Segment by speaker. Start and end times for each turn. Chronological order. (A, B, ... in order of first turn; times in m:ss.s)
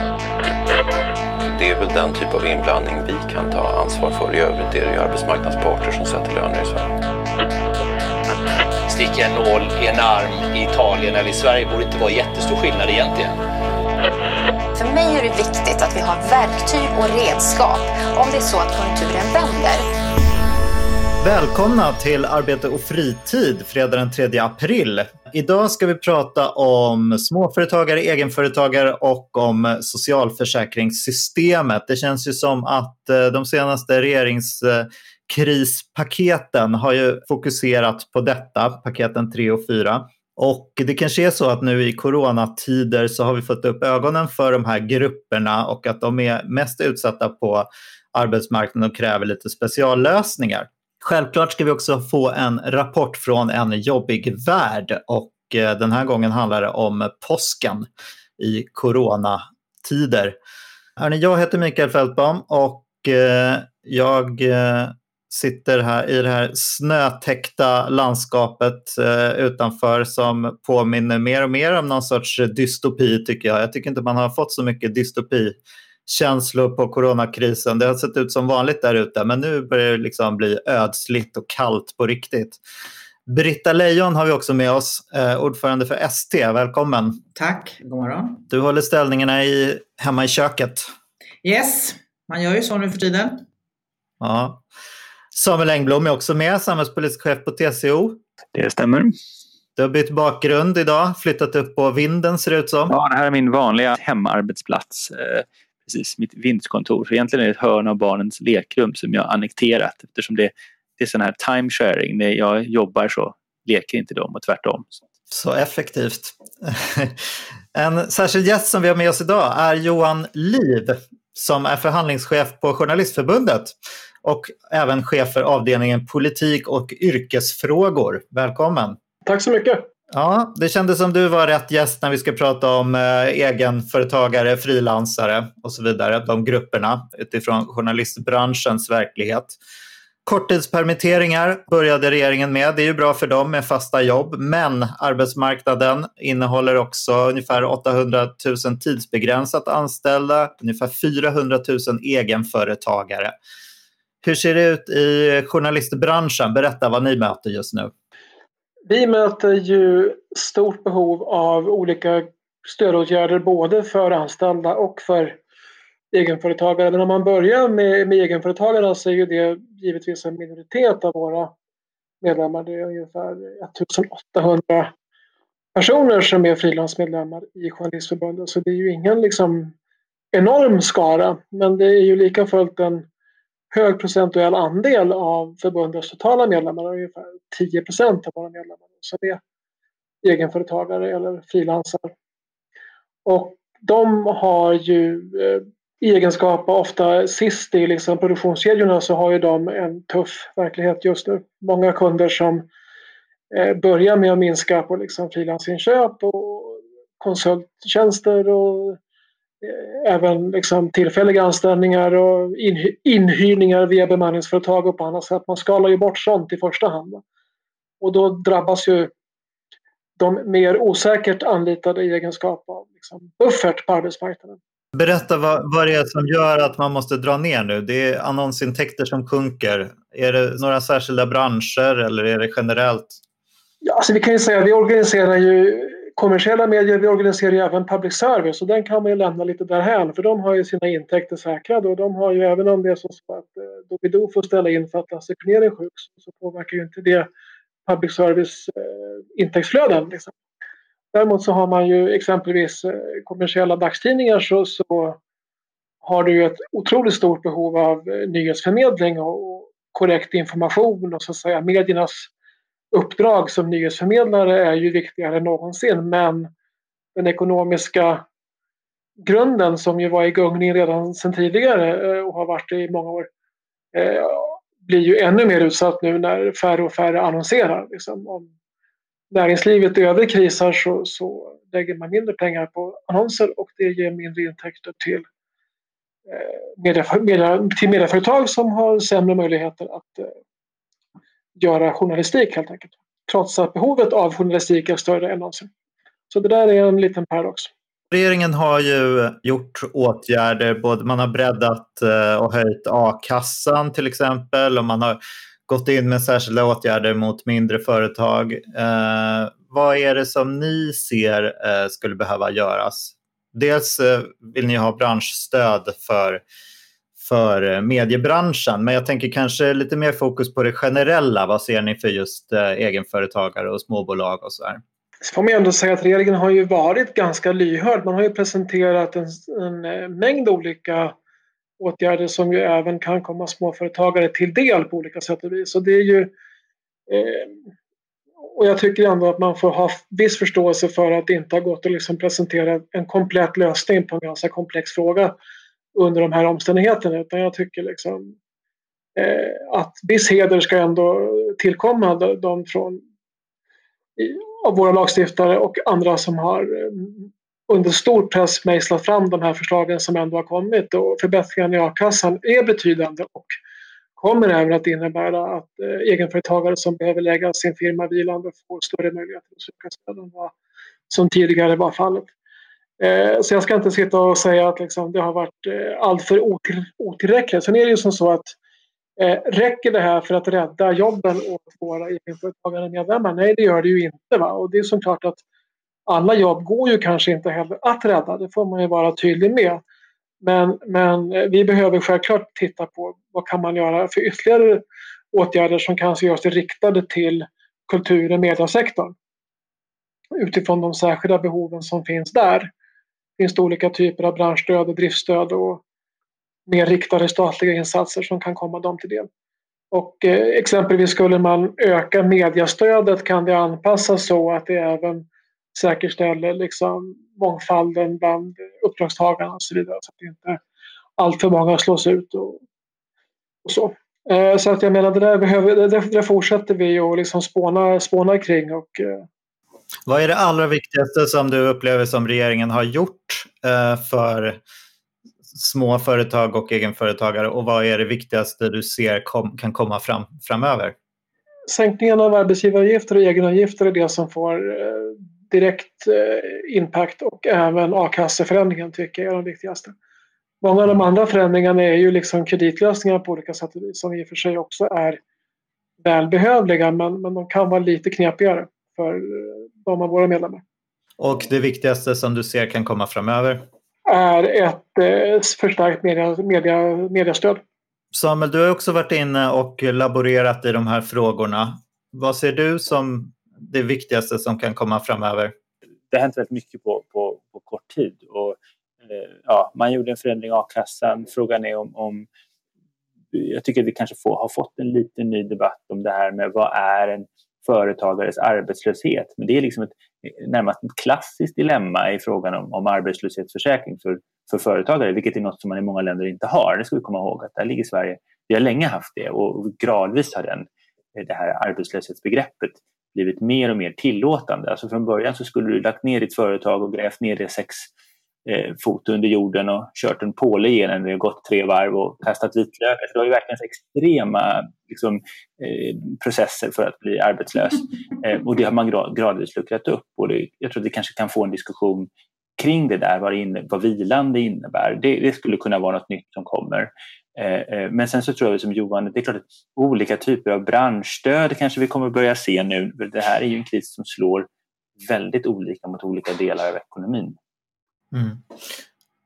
0:01.6-0:06.8 A
0:08.9-0:13.3 B
0:14.8-0:19.9 C
0:21.2-1:00.4 D
1:01.0-1:22.6 D
1:23.3-1:27.2 D
1:27.4-1:28.4 E
1:28.5-1:30.9 D
1:31.4-1:33.4 E
1:34.2-1:34.6 D
1:35.3-1:38.2 D
1:38.5-1:39.1 F
1:39.8-1:42.9 D
1:42.9-1:55.0 F
1:55.3-1:57.2 D
1:57.8-2:09.0 D
2:09.3-2:09.8 G
2:10.1-2:19.6 D
2:20.3-2:33.3 D
2:34.2-2:37.9 D
2:38.9-2:45.4 G
2:46.1-2:51.5 G
2:52.2-2:54.9 G
2:55.8-2:59.7 G
3:00.3-3:03.1 G
3:03.7-3:09.4 G
3:10.2-3:12.1 G
3:13.2-3:22.6 G
3:23.5-3:29.0 G
3:29.6-3:37.2 G
3:38.0-3:39.1 G
3:40.2-3:44.6 G
3:44.9-3:53.2 D
3:53.8-4:07.3 G
4:07.9-4:10.3 G
4:11.1-4:15.2 G
4:16.0-4:22.3 G
4:22.9-4:26.5 G
4:27.2-4:28.2 G
4:29.2-4:33.3 G
4:33.9-4:38.5 G
4:39.3-4:45.2 G
4:46.3-4:50.3 G
4:51.6-4:55.7 G
4:56.3-4:57.7 G
4:58.1-5:16.4 D
5:17.2-5:24.8 D
5:25.2-5:31.2 G
5:31.8-5:36.3 G
5:37.1-5:37.5 G
5:38.6-5:45.4 G
5:46.0-5:48.3 G
5:49.2-5:53.0 G
5:54.2-6:03.5 G
6:04.2-6:10.5 G
6:11.1-6:12.3 G
6:13.0-6:18.6 G
6:19.2-6:25.4 G
6:26.1-6:29.8 G
6:30.4-6:39.1 G
6:40.4-6:42.7 G
6:43.4-6:45.8 G
6:46.7-6:49.3 G
6:49.9-7:00.6 G
7:01.2-7:02.6 G
7:03.6-7:09.2 G
7:10.1-7:14.6 D
7:15.5-7:21.0 D
7:21.7-7:29.9 G
7:30.6-7:35.2 G
7:36.0-7:40.6 G
7:41.2-7:43.6 D
7:44.1-7:47.6 G
7:48.1-7:55.5 D
7:56.1-8:02.3 F
8:03.3-8:27.9 F
8:28.5-8:54.5 F
8:55.0-8:57.4 F
8:58.1-8:58.4 D